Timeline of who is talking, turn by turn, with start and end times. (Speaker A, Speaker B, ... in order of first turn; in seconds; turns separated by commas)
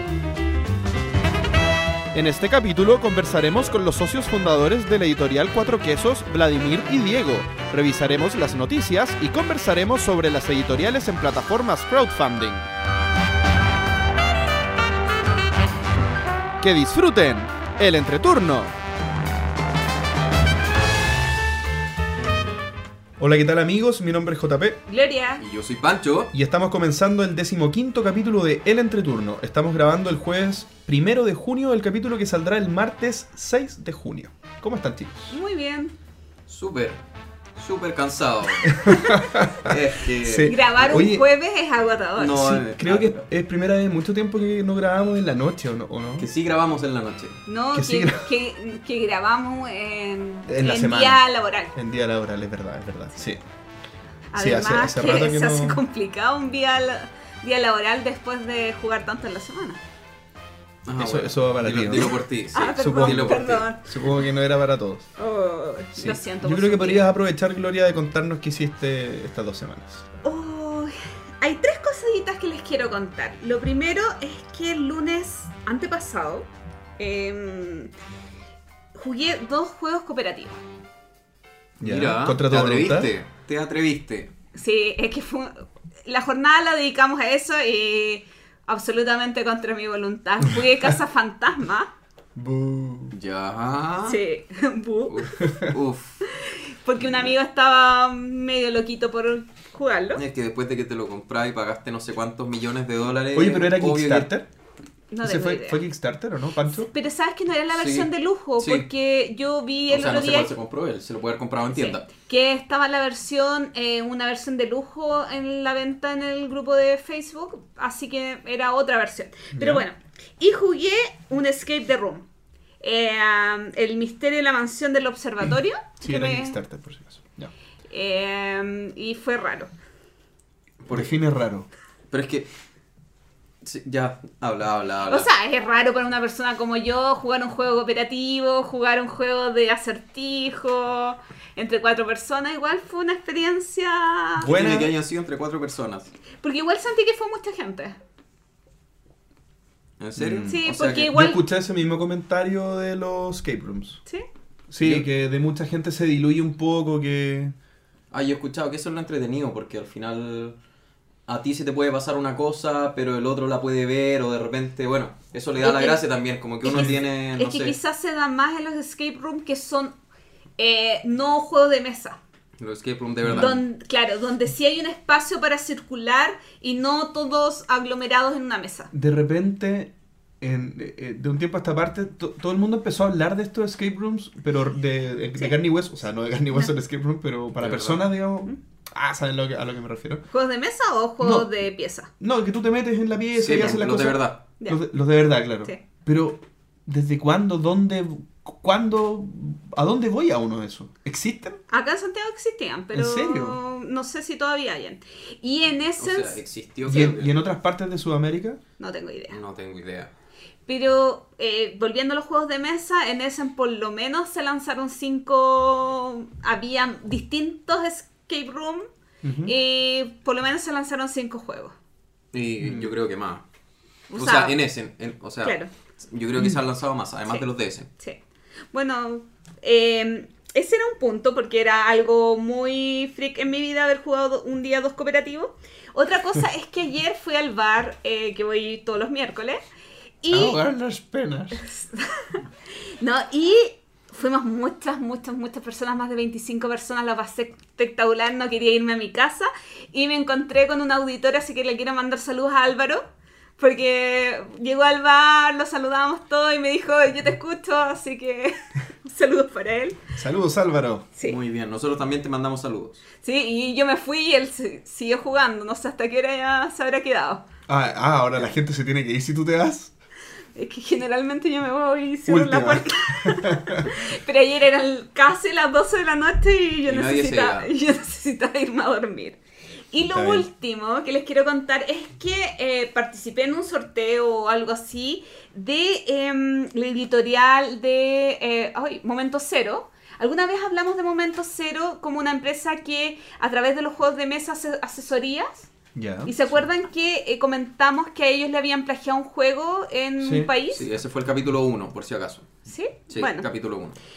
Speaker A: 2.1-12.6, Speaker A: 16.6-18.7, Speaker A: 23.2-24.8, Speaker B: 24.9-25.4, Speaker C: 25.4-26.3, Speaker A: 26.3-35.4, Speaker B: 35.3-35.9, Speaker C: 36.5-37.0, Speaker C: 37.6-39.0, Speaker A: 38.7-41.2, Speaker C: 39.6-40.6, Speaker B: 40.4-42.6, Speaker C: 42.2-43.1, Speaker A: 42.5-46.3, Speaker C: 46.2-47.4, Speaker B: 47.5-51.7, Speaker A: 47.7-48.2, Speaker A: 50.5-51.2, Speaker A: 51.7-53.4, Speaker B: 54.3-59.8, Speaker A: 54.4-55.8, Speaker C: 60.8-63.6, Speaker A: 61.0-65.1, Speaker B: 62.5-64.1, Speaker B: 65.2-67.1, Speaker A: 65.9-70.0, Speaker B: 70.2-76.5, Speaker B: 77.0-77.9, Speaker B: 78.9-80.6, Speaker A: 81.8-83.1, Speaker C: 81.8-84.3, Speaker B: 84.5-91.9, Speaker A: 92.3-93.2, Speaker C: 93.1-94.2, Speaker B: 94.1-95.6, Speaker C: 95.1-96.2, Speaker B: 96.3-100.2, Speaker C: 100.1-104.3, Speaker A: 103.3-104.5, Speaker B: 105.1-105.8, Speaker A: 105.2-106.9, Speaker B: 106.9-110.5, Speaker C: 107.7-108.9, Speaker C: 109.9-112.0, Speaker B: 111.8-122.2, Speaker A: 119.5-119.8, Speaker B: 122.8-126.6, Speaker A: 126.0-127.5, Speaker B: 127.9-129.7, Speaker C: 130.8-131.1, Speaker A: 130.9-131.7, Speaker C: 132.1-132.5, Speaker C: 133.6-135.3, Speaker B: 135.1-144.5, Speaker A: 144.4-144.9, Speaker C: 144.4-146.1, Speaker B: 146.4-148.0, Speaker C: 150.0-151.2, Speaker A: 150.2-154.0, Speaker B: 150.5-151.4, Speaker A: 154.7-157.5, Speaker C: 154.8-155.1, Speaker C: 158.1-160.6, Speaker C: 161.3-167.7, Speaker B: 165.6-166.0, Speaker B: 166.6-169.9, Speaker B: 170.6-172.2, Speaker C: 172.6-173.6, Speaker A: 173.3-173.5, Speaker B: 173.3-178.9, Speaker A: 178.9-190.2, Speaker C: 187.6-188.0, Speaker B: 190.3-192.1, Speaker A: 191.2-191.5, Speaker A: 192.2-201.6, Speaker C: 193.3-194.4, Speaker B: 193.5-193.8, Speaker B: 201.7-207.1, Speaker A: 202.9-203.6, Speaker C: 206.0-207.4, Speaker A: 206.8-208.6, Speaker B: 208.8-209.4, Speaker C: 209.3-210.1, Speaker B: 210.7-218.8, Speaker A: 219.2-219.5, Speaker B: 219.4-221.7, Speaker C: 222.3-223.4, Speaker A: 222.6-222.9, Speaker B: 224.1-224.6, Speaker C: 224.2-227.9, Speaker B: 225.4-225.7, Speaker B: 228.7-239.6, Speaker B: 240.2-240.6, Speaker A: 240.3-241.6, Speaker B: 241.6-242.4, Speaker B: 243.0-253.0, Speaker B: 253.6-260.0, Speaker A: 260.2-261.1, Speaker C: 261.2-263.0, Speaker B: 263.2-267.4, Speaker A: 267.7-269.9, Speaker B: 270.5-279.4, Speaker A: 272.3-273.9, Speaker C: 276.9-277.7, Speaker B: 279.9-295.7, Speaker A: 280.0-280.5, Speaker A: 295.9-296.3, Speaker B: 296.2-300.9, Speaker A: 300.2-300.5, Speaker C: 300.7-302.5, Speaker B: 302.7-303.5, Speaker C: 303.1-303.9